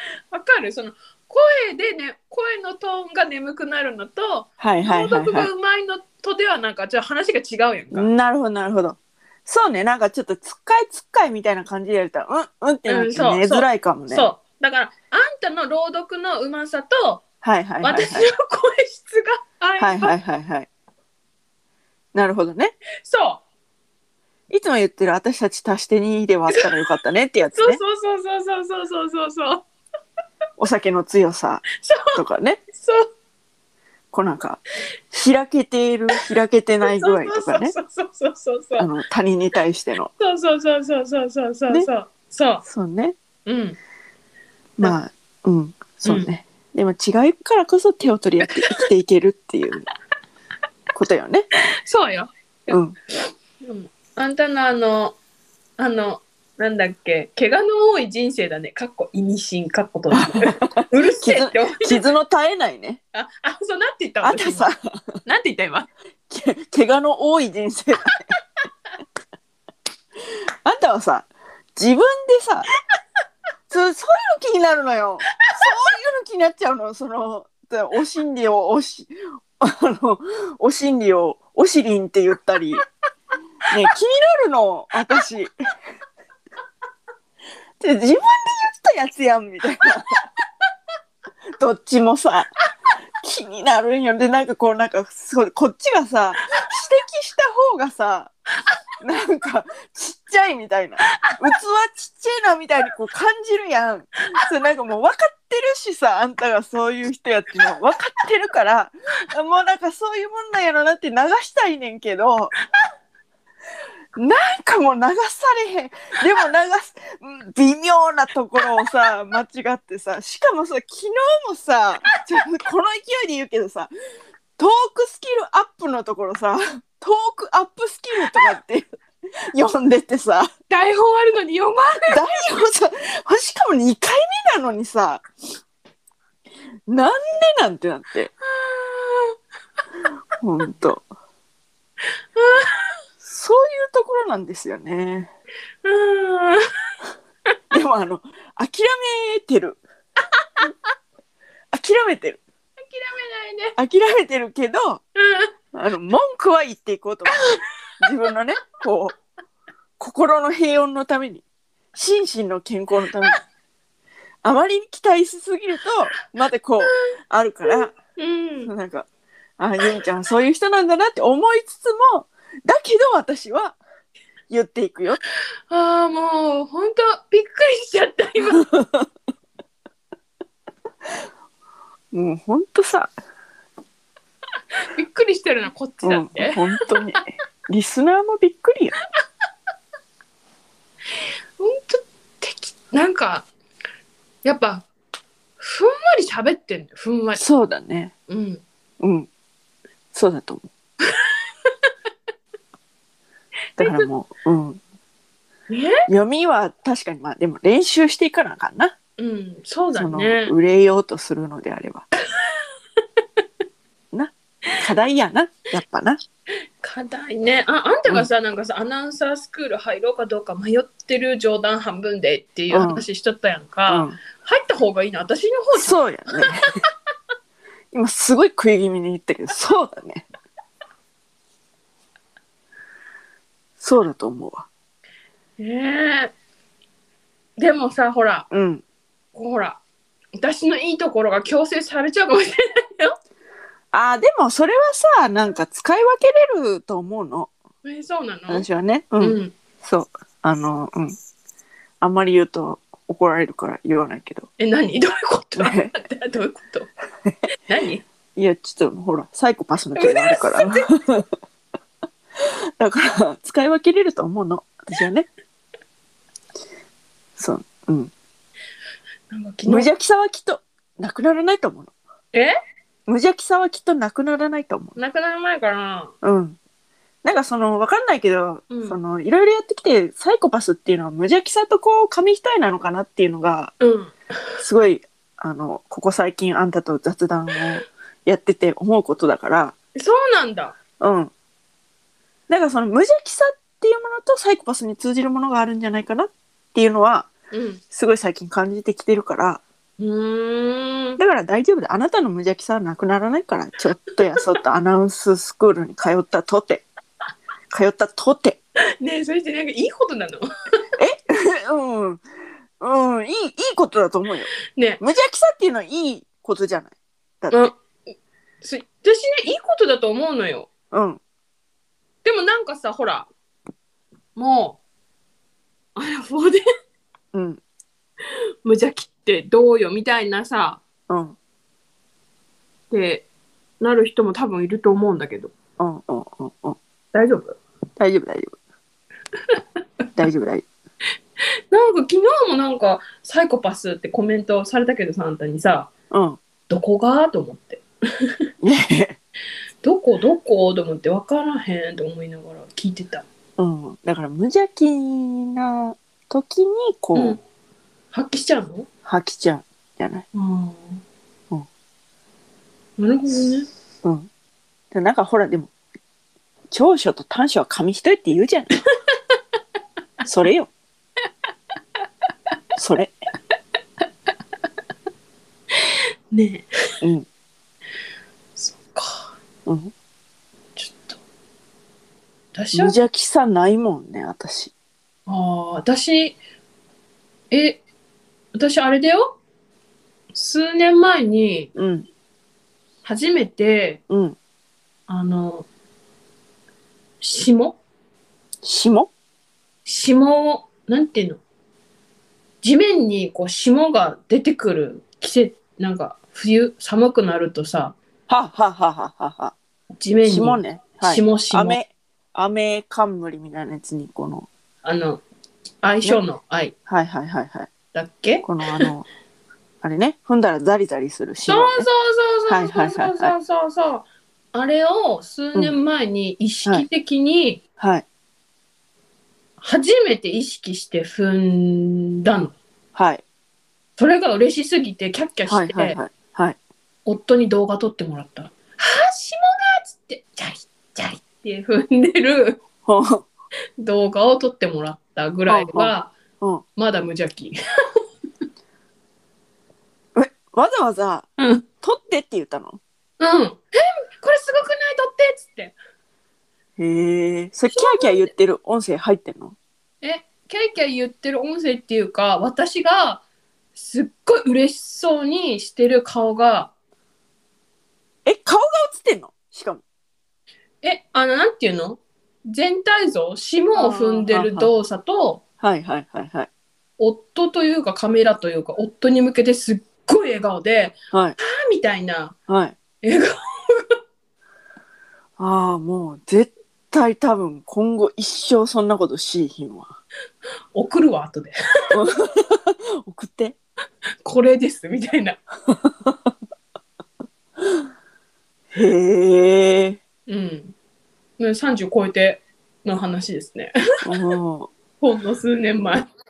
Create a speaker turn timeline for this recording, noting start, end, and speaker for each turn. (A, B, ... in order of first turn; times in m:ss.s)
0:00.3-0:08.1 A
0:04.6-0:05.5 B
0:07.9-0:14.3 B
0:12.9-0:17.2 A
0:17.4-0:18.3 B
0:17.8-0:20.1 A
0:19.8-0:20.7 B
0:22.1-0:22.8 B
0:23.0-0:23.4 A
0:24.5-0:27.8 B
0:27.5-0:29.7 A
0:30.6-0:32.6 B
0:31.8-0:32.2 A
0:32.7-0:33.1 A
0:34.1-0:34.6 B
0:35.1-0:37.8 B
0:36.9-0:38.9 A
0:38.8-0:40.1 B
0:40.2-0:42.6 A
0:42.6-0:43.2 B
0:43.4-0:43.8 A
0:44.8-0:49.9 B
0:46.0-0:46.3 A
0:50.9-0:51.5 B
0:51.8-0:52.8 A
0:52.7-0:53.0 B
0:53.6-0:55.2 A
0:55.8-1:02.0 A
1:00.1-1:03.0 B
1:03.1-1:04.7 A
1:04.2-1:05.2 B
1:05.2-1:05.9 A
1:06.3-1:08.2 B
1:10.3-1:12.7 B
1:13.7-1:22.8 B
1:23.7-1:25.5 B
1:27.8-1:30.2 B
1:31.6-1:32.5 B
1:33.2-1:38.3 B
1:39.0-1:52.6 B
1:54.2-2:03.9 B
2:04.6-2:08.9 B
2:09.5-2:10.5 B
2:10.7-2:12.3 A
2:12.1-2:15.2 B
2:16.9-2:18.3 B
2:18.4-2:19.4 A
2:20.4-2:21.1 B
2:22.4-2:23.0 A
2:23.2-2:25.3 B
2:25.8-2:26.6 A
2:27.7-2:29.8 B
2:31.7-2:32.4 B
2:32.8-2:33.8 A
2:33.8-2:35.0 B
2:35.2-2:35.5 A
2:35.7-2:37.5 B
2:38.0-2:39.2 B
2:40.0-2:41.4 B
2:42.0-2:43.4 B
2:44.4-2:48.0 B
2:47.7-2:48.7 A
2:48.6-2:49.1 B
2:49.6-2:53.8 B
2:54.5-2:55.2 B
2:55.7-2:58.6 A
2:58.6-2:59.1 B
3:02.1-3:03.1 B
3:04.8-3:06.6 A
3:06.0-3:09.0 B
3:11.1-3:13.5 A
3:14.4-3:14.9 A
3:15.6-3:17.4 A
3:17.4-3:18.1 B
3:18.3-3:18.6 A
3:19.0-3:19.3 B
3:20.1-3:20.7 B
3:21.1-3:21.9 A
3:23.8-3:24.1 A
3:23.8-3:24.8 B
3:25.7-3:26.0 A
3:26.1-3:29.0 B
3:29.2-3:30.5 A
3:29.9-3:32.1 B
3:32.4-3:32.6 A
3:34.1-3:36.2 B
3:36.8-3:46.5 A
3:42.7-3:43.0 B
3:43.9-3:44.2 B
3:45.8-3:46.7 B
3:47.9-3:50.3 B
3:53.8-3:54.7 B
3:55.6-3:56.3 A
3:57.6-3:58.5 A
3:58.5-3:58.8 B
3:59.4-3:59.8 A
4:00.4-4:03.2 A
4:03.9-4:07.5 B
4:07.8-4:08.7 A
4:08.5-4:11.2 B
4:09.2-4:09.5 A
4:12.0-4:14.5 B
4:14.6-4:16.9 A
4:15.6-4:15.9 B
4:17.7-4:18.0 A
4:18.4-4:21.3 B
4:20.0-4:20.8 A
4:22.4-4:25.3 B
4:27.4-4:28.1 B
4:29.3-4:29.9 A
4:29.7-4:31.9 B
4:33.1-4:35.0 B
4:35.0-4:36.1 A
4:36.2-4:36.6 B
4:37.2-4:43.7 B
4:38.7-4:39.0 A
4:43.8-4:44.1 A
4:44.6-4:49.8 B
4:50.0-4:50.8 A
4:51.0-4:51.3 B
4:52.5-4:57.3 B
4:57.5-4:57.8 A
4:57.9-4:59.6 B
5:00.0-5:01.2 A
5:01.2-5:06.9 B
5:07.7-5:08.6 B
5:09.0-5:10.5 A
5:11.0-5:12.2 B
5:12.8-5:17.7 B
5:14.7-5:15.0 A
5:18.6-5:20.7 A
5:20.9-5:21.2 B
5:22.2-5:23.3 A
5:24.4-5:24.8 A
5:26.0-5:26.6 A
5:27.3-5:27.6 B
5:28.3-5:30.8 A
5:31.1-5:31.4 B
5:32.9-5:33.3 A
5:33.8-5:35.5 A
5:35.8-5:36.8 B
5:37.1-5:37.6 A
5:38.0-5:38.6 B
5:40.2-5:40.7 B
5:41.7-5:45.9 A
5:46.1-5:46.4 B
5:46.7-5:48.4 A
5:48.6-5:49.2 B
5:49.8-5:53.2 A
5:53.6-5:57.4 B
5:58.1-5:58.9 A
5:59.0-6:00.2 B
6:00.3-6:01.0 A
6:03.0-6:03.7 A
6:04.0-6:04.3 B
6:04.9-6:05.7 B
6:06.7-6:08.7 B
6:09.1-6:09.4 A
6:10.2-6:10.7 B
6:12.8-6:13.2 B
6:15.7-6:16.7 A
6:17.0-6:17.3 B
6:18.6-6:19.3 A
6:19.7-6:19.9 B
6:20.8-6:21.2 A
6:22.5-6:23.0 A
6:22.7-6:24.7 B
6:25.3-6:26.4 A
6:27.5-6:27.8 A
6:28.5-6:29.4 A
6:30.3-6:31.7 A
6:31.8-6:32.1 B
6:33.0-6:34.0 A
6:34.1-6:34.4 B
6:35.1-6:35.7 A
6:37.2-6:37.8 A
6:38.6-6:39.1 B
6:39.9-6:41.4 A
6:42.6-6:48.0 A
6:48.3-6:49.6 B
6:50.0-6:51.8 A
6:50.2-6:54.5 B
6:54.8-6:55.2 A
6:55.8-6:56.7 A
6:56.9-6:57.7 B
6:57.9-6:58.8 A
6:58.4-6:59.1 B
6:59.8-7:01.9 B
7:01.5-7:07.6 A
7:02.5-7:03.3 B
7:07.8-7:08.0 B
7:09.6-7:12.6 A
7:13.0-7:13.2 B
7:14.0-7:16.0 A
7:15.5-7:16.6 B
7:17.1-7:22.6 A
7:22.9-7:23.3 B
7:23.8-7:26.1 A
7:25.5-7:26.6 B
7:26.8-7:27.6 A
7:30.2-7:31.3 B
7:31.4-7:31.7 A
7:31.8-7:32.8 B
7:33.2-7:35.8 A
7:36.8-7:39.6 B
7:37.7-7:38.3 A
7:40.0-7:43.2 A
7:43.8-7:46.7 A
7:48.2-7:49.8 B
7:50.8-7:55.4 A
7:53.7-7:54.7 B
7:55.6-7:56.5 B
7:57.0-8:02.4 A
8:02.5-8:02.8 B
8:03.0-8:04.0 A
8:05.4-8:10.0 B
8:10.7-8:11.9 A
8:11.9-8:13.6 B
8:14.2-8:15.4 A
8:15.7-8:16.2 B
8:18.7-8:20.0 B
8:20.3-8:20.8 A
8:21.4-8:23.7 A
8:24.0-8:24.7 B
8:25.0-8:26.1 A